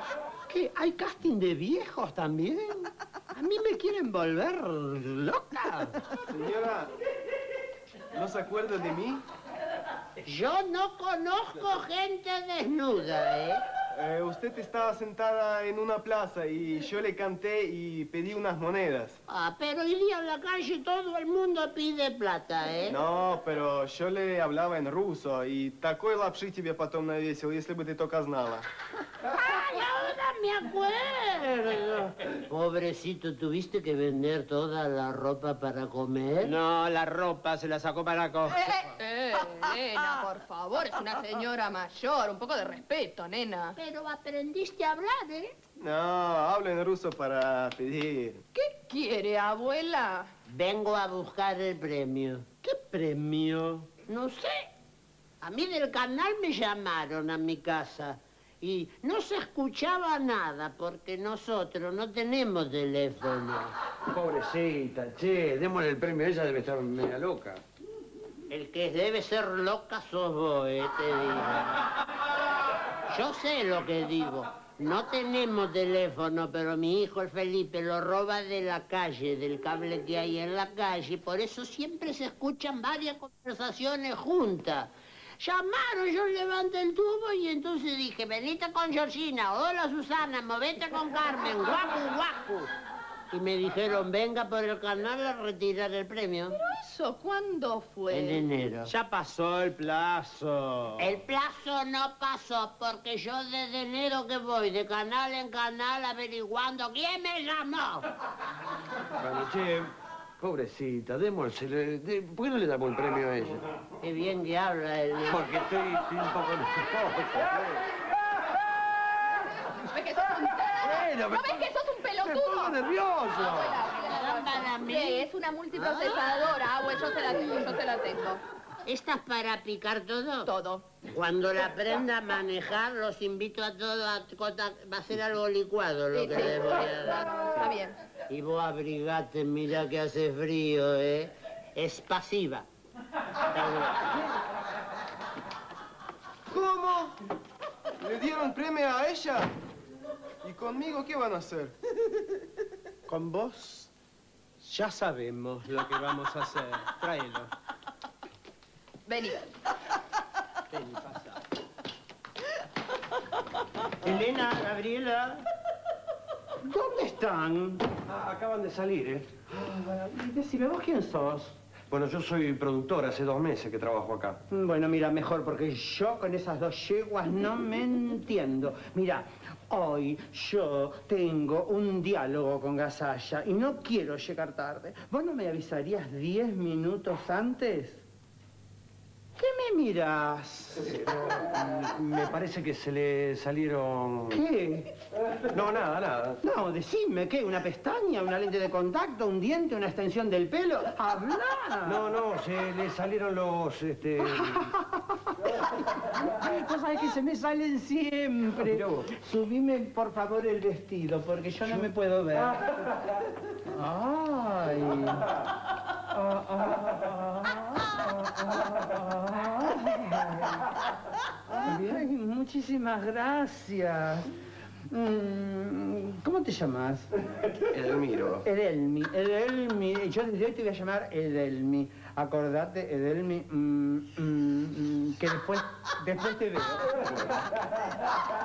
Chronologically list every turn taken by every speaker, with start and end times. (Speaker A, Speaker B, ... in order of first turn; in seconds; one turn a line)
Speaker A: 0.5-2.9
Speaker B: 1.2-2.6
Speaker B: 3.3-5.9
Speaker A: 3.7-4.3
Speaker C: 6.3-6.9
Speaker C: 8.1-9.2
Speaker B: 10.2-13.6
Speaker C: 13.9-19.2
Speaker B: 19.3-23.0
Speaker C: 22.9-28.6
Speaker B: 29.2-36.5
Speaker A: 36.4-38.9
Speaker D: 38.6-43.8
Speaker B: 43.8-45.5
Speaker C: 45.8-48.4
Speaker D: 48.5-50.3
Speaker B: 50.5-54.7
Speaker B: 55.4-63.7
Speaker E: 64.1-67.6
Speaker B: 68.5-71.8
Speaker B: 73.1-92.7
Speaker B: 93.3-96.6
Speaker D: 96.5-98.5
Speaker B: 98.1-98.9
Speaker A: 98.8-101.2
Speaker B: 101.0-108.1
Speaker E: 109.2-113.6
Speaker B: 114.0-115.6
Speaker E: 115.3-117.8
Speaker D: 119.7-128.4
Speaker E: 120.8-121.7
Speaker E: 122.2-123.8
Speaker B: 123.9-126.2
Speaker B: 128.8-130.5
Speaker D: 130.4-130.9
Speaker B: 131.0-137.7
Speaker D: 136.1-137.9
Speaker B: 138.3-142.7
Speaker B: 143.5-144.2
Speaker C: 146.5-147.2
Speaker C: 148.0-149.5
Speaker C: 150.4-151.7
Speaker A: 153.1-153.9
Speaker A: 154.6-157.5
Speaker D: 159.1-159.4
Speaker A: 160.7-161.4
Speaker A: 164.0-165.4
Speaker A: 166.6-167.8
Speaker E: 168.1-169.4
Speaker A: 169.5-171.5
Speaker E: 171.9-174.4
Speaker A: 174.5-188.0
Speaker A: 189.4-191.0
Speaker E: 191.0-194.4
Speaker A: 194.3-194.9
Speaker E: 195.4-196.4
Speaker A: 196.4-202.1
Speaker E: 201.8-204.7
Speaker A: 204.2-205.3
Speaker A: 206.0-212.6
Speaker E: 208.6-209.1
Speaker A: 213.7-215.3
Speaker A: 216.1-220.7
Speaker A: 221.5-224.3
Speaker A: 224.9-227.1
Speaker E: 227.7-228.4
Speaker A: 228.4-236.9